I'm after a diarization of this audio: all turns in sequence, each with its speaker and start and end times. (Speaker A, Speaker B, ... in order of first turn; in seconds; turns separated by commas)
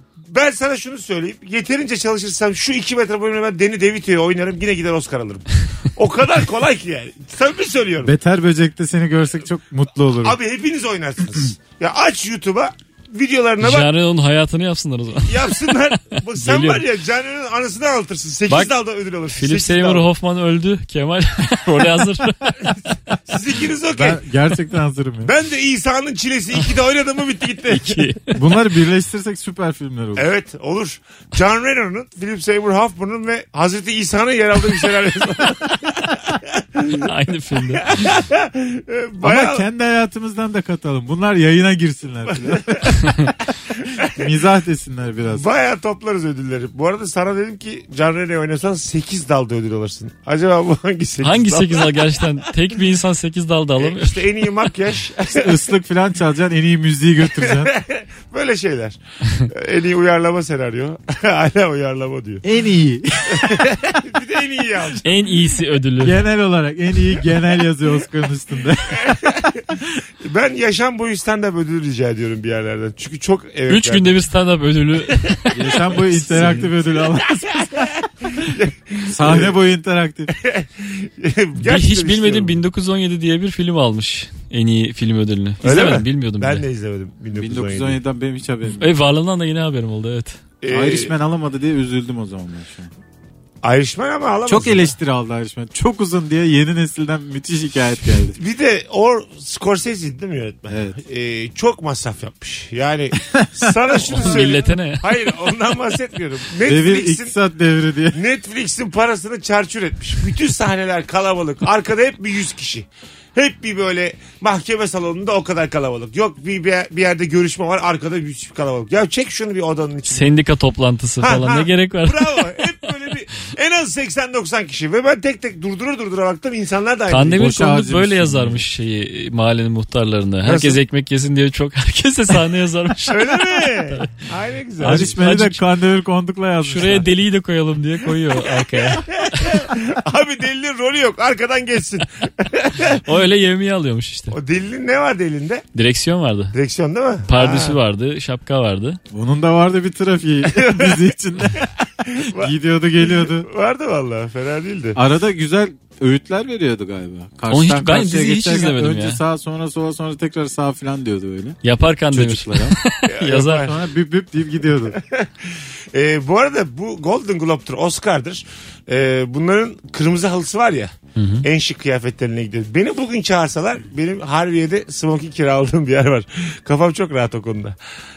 Speaker A: 0.3-8.1, Speaker B: 8.0-10.4, Speaker A: 10.2-13.9, Speaker C: 13.6-15.5, Speaker A: 15.2-20.1, Speaker C: 16.4-16.8, Speaker C: 18.5-18.7, Speaker C: 19.3-22.8, Speaker A: 23.3-24.2, Speaker B: 23.9-25.3, Speaker A: 25.2-28.0, Speaker C: 27.7-28.4, Speaker B: 28.3-30.3, Speaker A: 30.2-37.1, Speaker C: 37.0-38.0, Speaker A: 37.7-39.6, Speaker B: 39.2-43.3, Speaker A: 42.5-42.9, Speaker A: 43.7-44.2, Speaker B: 44.1-45.5, Speaker A: 45.3-52.2, Speaker C: 51.2-54.3, Speaker A: 53.8-55.6, Speaker B: 55.4-57.7, Speaker A: 57.4-62.4, Speaker B: 62.4-63.7, Speaker A: 63.3-65.3, Speaker C: 65.0-66.2, Speaker B: 66.0-69.1, Speaker A: 68.9-74.1, Speaker C: 73.7-76.7, Speaker B: 75.5-78.0, Speaker A: 77.5-79.6, Speaker B: 79.1-80.4, Speaker A: 80.3-82.5, Speaker C: 81.6-86.6, Speaker A: 85.6-88.0, Speaker B: 87.4-89.0, Speaker C: 88.8-90.4, Speaker A: 90.6-91.1, Speaker B: 90.7-92.9, Speaker A: 93.6-95.0, Speaker B: 94.5-98.4, Speaker A: 98.3-107.3, Speaker B: 100.7-101.0, Speaker C: 104.0-105.0, Speaker B: 106.7-108.2, Speaker A: 108.1-120.3, Speaker C: 120.1-122.6, Speaker A: 121.2-127.5, Speaker C: 127.1-134.1, Speaker B: 127.3-128.7, Speaker A: 130.4-130.8, Speaker A: 133.1-135.2, Speaker B: 134.8-137.1, Speaker C: 134.8-135.6, Speaker C: 136.6-139.1, Speaker A: 138.6-143.0, Speaker C: 142.9-144.4, Speaker A: 144.3-145.7, Speaker C: 145.8-146.6, Speaker A: 146.5-147.8, Speaker C: 147.3-149.0, Speaker B: 149.1-151.6, Speaker A: 150.5-151.0, Speaker A: 151.6-155.0, Speaker B: 152.3-153.5, Speaker B: 154.9-161.6, Speaker C: 157.5-159.2, Speaker C: 161.6-163.7, Speaker B: 162.1-162.8, Speaker A: 163.0-163.7, Speaker B: 163.4-165.0, Speaker A: 164.9-177.8, Speaker C: 171.2-171.4